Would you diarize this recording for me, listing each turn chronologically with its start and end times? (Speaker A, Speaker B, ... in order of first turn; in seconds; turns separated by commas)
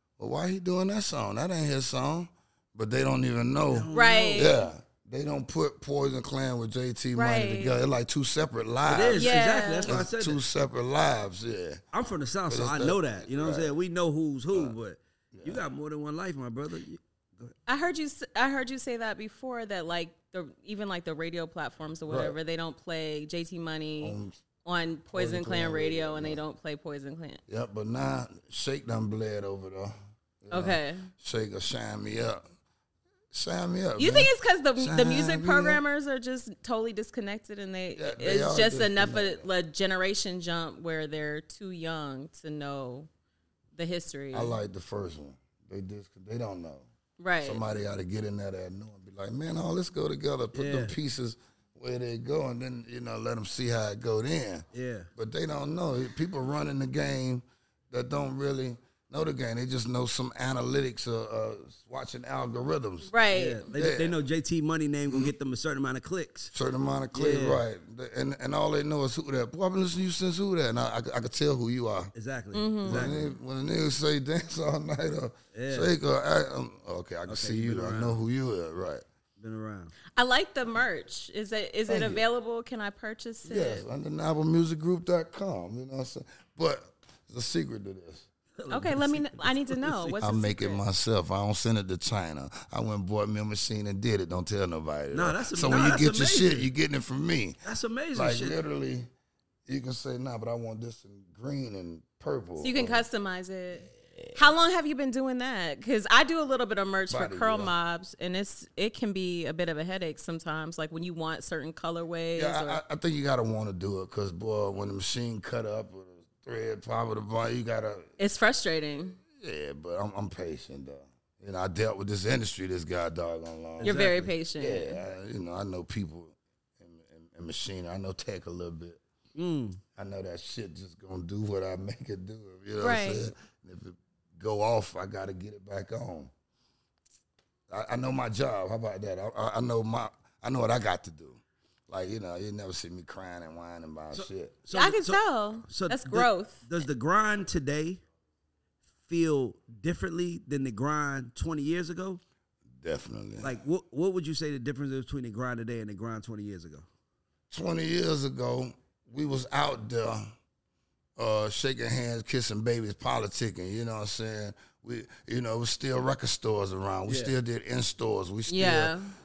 Speaker A: 0.2-11.8, Speaker B: 3.7-4.5, Speaker C: 3.9-4.6, Speaker C: 7.2-7.7, Speaker B: 8.9-10.4, Speaker C: 9.2-9.9, Speaker B: 11.9-17.5, Speaker A: 12.5-13.7, Speaker A: 15.3-15.6, Speaker C: 17.7-27.4, Speaker A: 22.1-22.4, Speaker A: 24.0-24.4, Speaker A: 25.1-26.4, Speaker A: 27.5-32.4, Speaker C: 30.5-31.1, Speaker A: 33.3-35.8, Speaker C: 34.0-43.1, Speaker A: 38.0-39.5, Speaker C: 43.8-44.6, Speaker A: 44.3-46.9, Speaker C: 47.2-47.6, Speaker A: 47.4-54.6, Speaker B: 50.5-51.0, Speaker B: 54.7-55.1, Speaker A: 55.2-63.1, Speaker C: 63.1-63.7, Speaker B: 63.3-66.5, Speaker A: 63.7-64.2, Speaker A: 66.5-72.1, Speaker B: 67.1-67.6, Speaker B: 72.2-73.3, Speaker C: 72.5-73.1, Speaker A: 72.8-79.0, Speaker B: 75.5-75.9, Speaker B: 77.3-78.2, Speaker B: 79.4-80.0, Speaker C: 80.2-83.8, Speaker A: 81.9-82.2, Speaker A: 83.5-88.3, Speaker B: 88.6-90.2, Speaker C: 88.7-90.8, Speaker A: 90.2-97.6, Speaker B: 95.1-96.7, Speaker B: 97.7-98.6, Speaker A: 98.2-99.1, Speaker A: 99.7-103.0, Speaker C: 102.6-112.8, Speaker A: 107.1-107.7, Speaker A: 112.4-118.1, Speaker C: 118.2-119.2, Speaker A: 119.3-124.0, Speaker B: 123.8-124.3, Speaker C: 123.8-125.0, Speaker A: 124.6-129.0, Speaker B: 129.3-129.8, Speaker A: 130.0-136.3, Speaker C: 132.8-133.3, Speaker A: 137.7-144.6, Speaker B: 144.1-148.0, Speaker C: 144.7-146.7, Speaker B: 149.1-152.2, Speaker A: 152.8-153.6, Speaker B: 153.4-156.8, Speaker A: 157.5-160.3, Speaker A: 161.2-168.9, Speaker B: 167.1-167.3, Speaker C: 168.5-169.1